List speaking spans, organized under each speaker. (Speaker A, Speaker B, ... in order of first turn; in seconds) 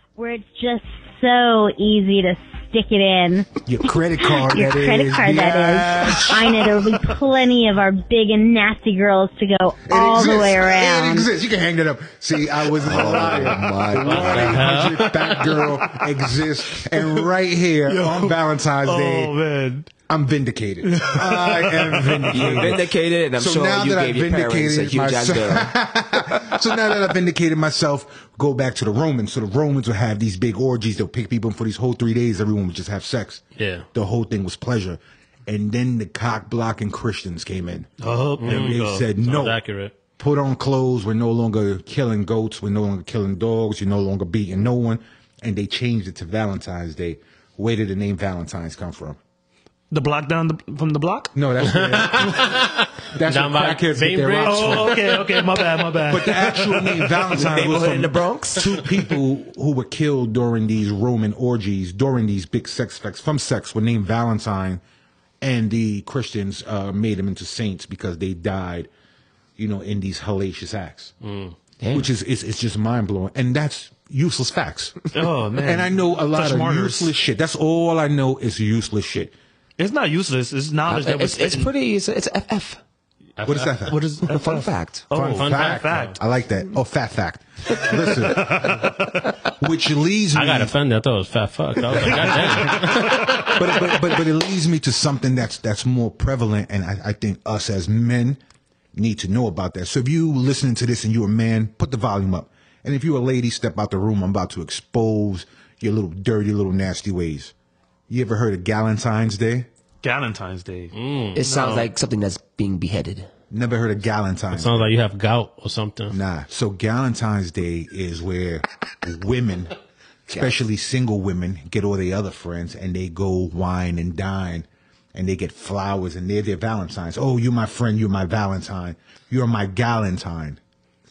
Speaker A: 0.2-3.5, 4.5-11.3
Speaker B: 3.6-6.9, 9.9-19.4, 20.1-22.8, 23.4-37.9, 38.4-39.6, 40.2-49.2, 51.3-55.1, 56.1-64.8, 65.4-68.9, 69.6-71.1, 71.9-75.0, 75.6-79.3, 83.4-84.0, 85.1-88.8, 89.5-90.8, 92.0-98.4, 98.9-107.5, 108.1-109.7, 113.5-114.9, 116.1-119.7, 120.3-130.6
Speaker C: 12.8-14.7, 22.3-26.6, 57.3-58.8, 71.8-72.1, 80.9-82.8, 84.2-85.1, 111.3-113.3, 120.3-120.6
Speaker D: 14.0-15.7, 33.6-33.9, 38.4-40.0, 51.6-55.5, 71.2-71.5, 83.4-83.7, 85.4-86.1, 90.3-94.0, 110.9-111.4, 114.5-116.2
Speaker E: 16.8-17.2, 17.9-19.9, 20.8-22.7, 38.0-39.2, 49.9-51.3, 54.4-59.0, 75.1-77.1, 79.8-81.7, 83.8-86.1, 88.5-88.8, 110.0-110.9, 111.4-111.9